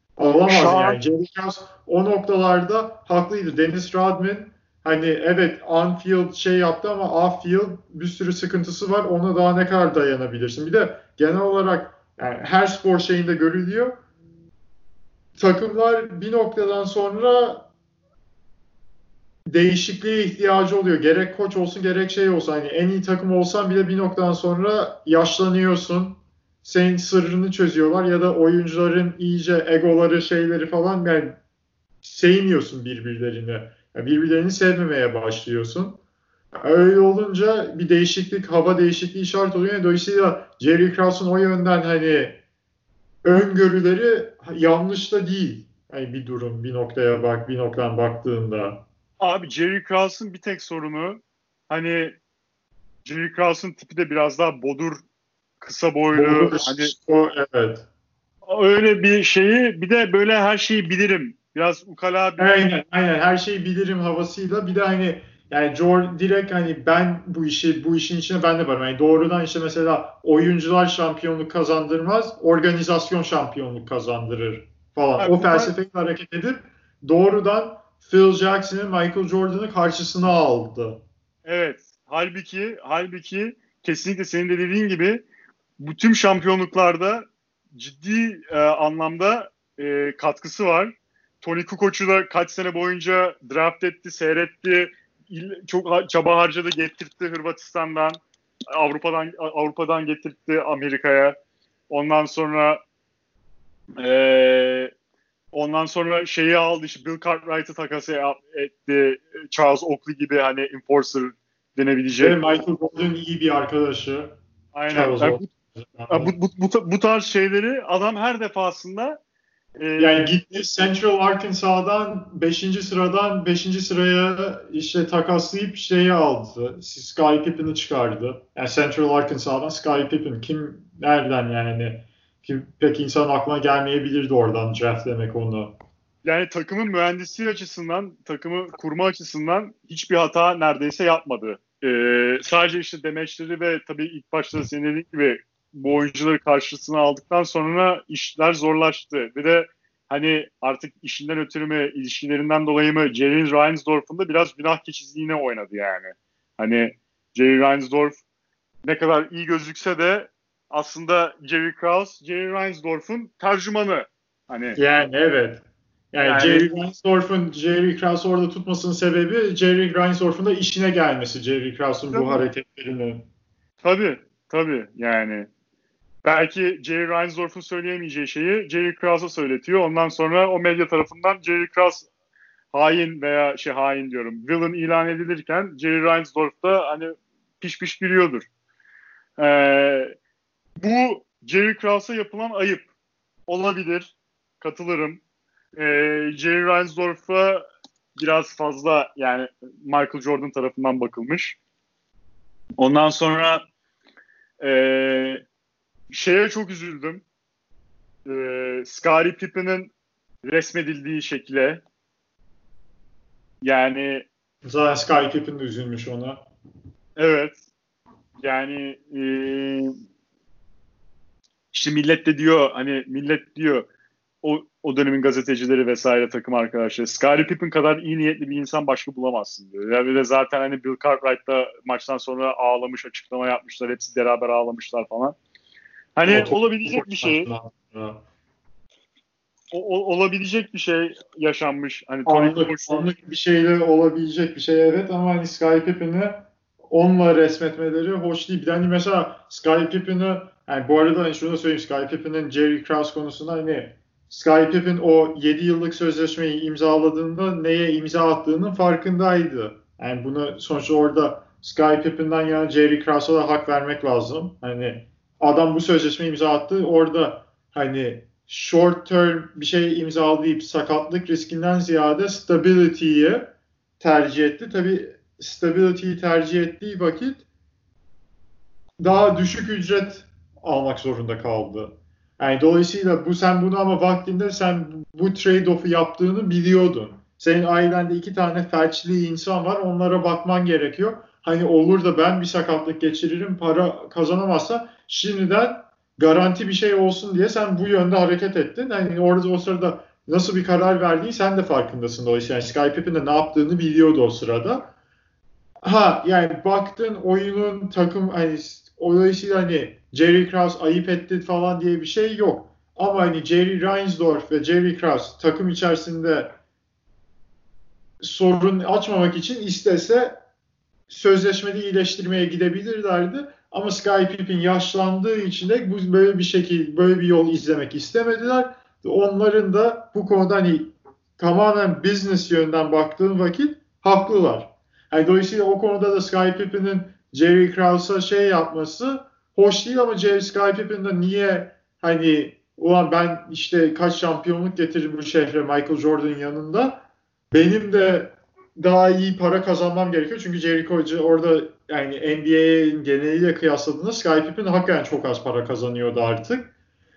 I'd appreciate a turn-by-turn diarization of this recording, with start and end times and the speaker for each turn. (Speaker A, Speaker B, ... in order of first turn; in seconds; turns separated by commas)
Speaker A: 0.2-14.0, Speaker B: 0.4-1.0, Speaker A: 15.4-17.7, Speaker A: 19.4-31.4, Speaker A: 32.0-36.0, Speaker A: 36.6-42.4, Speaker A: 43.2-48.8, Speaker B: 49.2-52.2, Speaker B: 53.0-55.0, Speaker B: 55.6-56.9, Speaker A: 56.1-57.9, Speaker B: 58.4-62.5, Speaker A: 62.4-81.0, Speaker B: 75.2-75.7, Speaker B: 81.4-85.2, Speaker B: 85.8-98.2, Speaker B: 98.7-101.3, Speaker B: 101.9-102.8, Speaker B: 104.0-104.9, Speaker B: 105.5-112.4, Speaker A: 112.2-114.4, Speaker B: 114.7-115.4, Speaker A: 114.9-116.3, Speaker B: 116.1-119.2, Speaker B: 119.8-120.3, Speaker A: 120.0-135.8, Speaker B: 136.2-158.2, Speaker B: 158.8-164.8, Speaker A: 164.8-173.2, Speaker B: 166.2-166.8, Speaker B: 172.1-172.4, Speaker B: 173.8-175.5, Speaker B: 176.2-182.1, Speaker B: 182.7-188.5, Speaker B: 189.4-190.1, Speaker B: 190.8-192.9, Speaker B: 193.5-195.2, Speaker B: 195.8-197.6, Speaker B: 198.2-201.6, Speaker B: 202.8-203.7, Speaker B: 204.6-205.4, Speaker B: 206.1-207.2, Speaker B: 208.2-209.9, Speaker B: 210.4-211.8, Speaker B: 213.6-214.3, Speaker A: 214.6-216.4, Speaker B: 217.2-217.6, Speaker B: 218.4-219.9, Speaker B: 221.7-223.9, Speaker B: 224.4-235.3, Speaker B: 236.2-237.5, Speaker A: 236.2-238.2, Speaker B: 239.7-243.1, Speaker A: 242.2-277.4, Speaker A: 279.0-304.9, Speaker A: 305.8-316.6, Speaker A: 318.2-320.4, Speaker A: 321.1-356.7